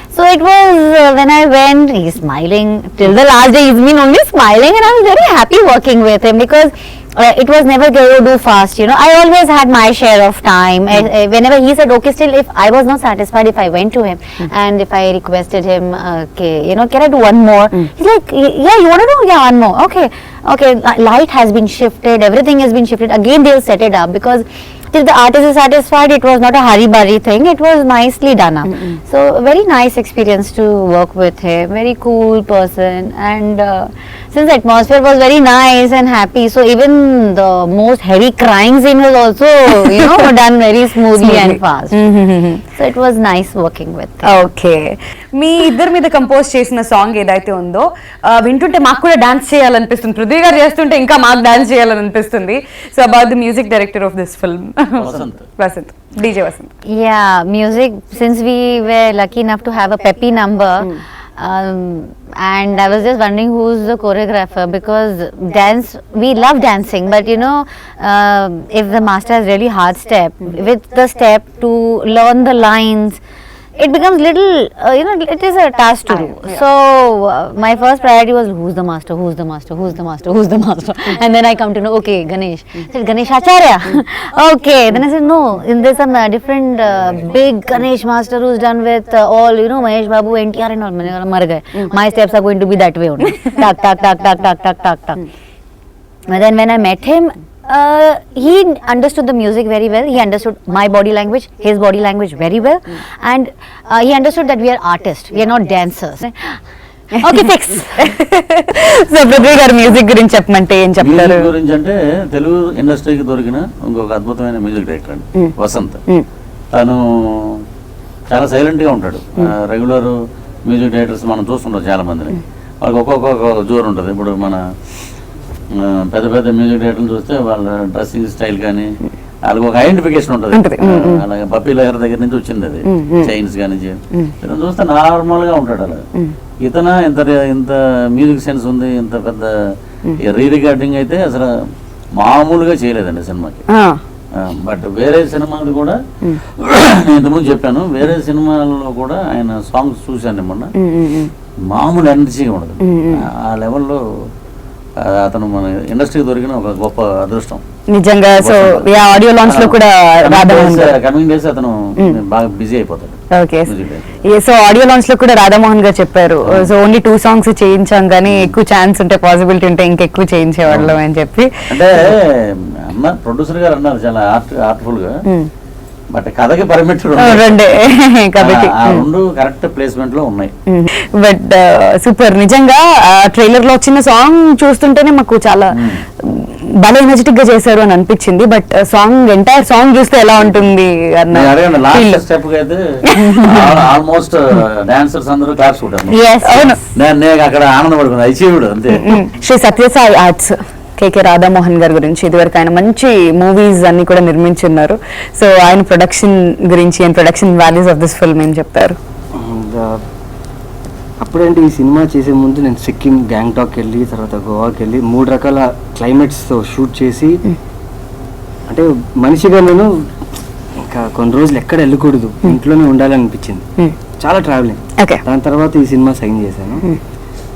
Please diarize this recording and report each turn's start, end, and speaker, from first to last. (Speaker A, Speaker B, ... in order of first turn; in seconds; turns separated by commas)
Speaker A: 0.1-42.0, Speaker B: 28.7-29.0, Speaker B: 39.8-40.2, Speaker B: 41.2-42.6, Speaker A: 42.8-44.3, Speaker B: 44.2-56.7, Speaker C: 55.0-55.5, Speaker A: 56.9-73.2, Speaker A: 73.8-95.2, Speaker B: 76.1-76.6, Speaker A: 96.3-106.6, Speaker A: 107.2-108.1, Speaker B: 107.2-111.5, Speaker C: 111.0-116.0, Speaker C: 116.7-117.6, Speaker C: 118.3-120.2, Speaker C: 120.7-124.6, Speaker C: 125.7-128.9, Speaker C: 129.5-136.0, Speaker B: 130.5-131.2, Speaker B: 132.9-133.3, Speaker C: 136.6-139.5, Speaker C: 140.2-141.5, Speaker C: 142.2-143.6, Speaker B: 143.7-144.0, Speaker C: 144.4-146.0, Speaker C: 146.6-150.7, Speaker B: 150.8-151.3, Speaker C: 151.7-154.0, Speaker B: 152.8-153.2, Speaker C: 155.0-157.6, Speaker B: 157.9-160.9, Speaker C: 158.4-158.9, Speaker C: 159.4-164.1, Speaker B: 163.3-163.7, Speaker B: 164.3-171.5, Speaker C: 168.2-168.5, Speaker C: 170.7-171.0, Speaker C: 171.7-175.1, Speaker C: 176.1-177.8, Speaker B: 177.2-179.1, Speaker C: 178.4-180.5, Speaker B: 180.7-192.2, Speaker C: 185.7-186.0, Speaker C: 190.4-190.7, Speaker C: 191.3-196.2, Speaker B: 193.1-193.6, Speaker A: 196.1-196.8, Speaker B: 196.4-196.8, Speaker C: 196.9-199.2, Speaker B: 198.9-209.0, Speaker D: 209.3-210.0, Speaker D: 211.2-217.4, Speaker D: 218.7-219.9, Speaker D: 220.8-223.7, Speaker D: 224.2-226.9, Speaker B: 225.0-225.2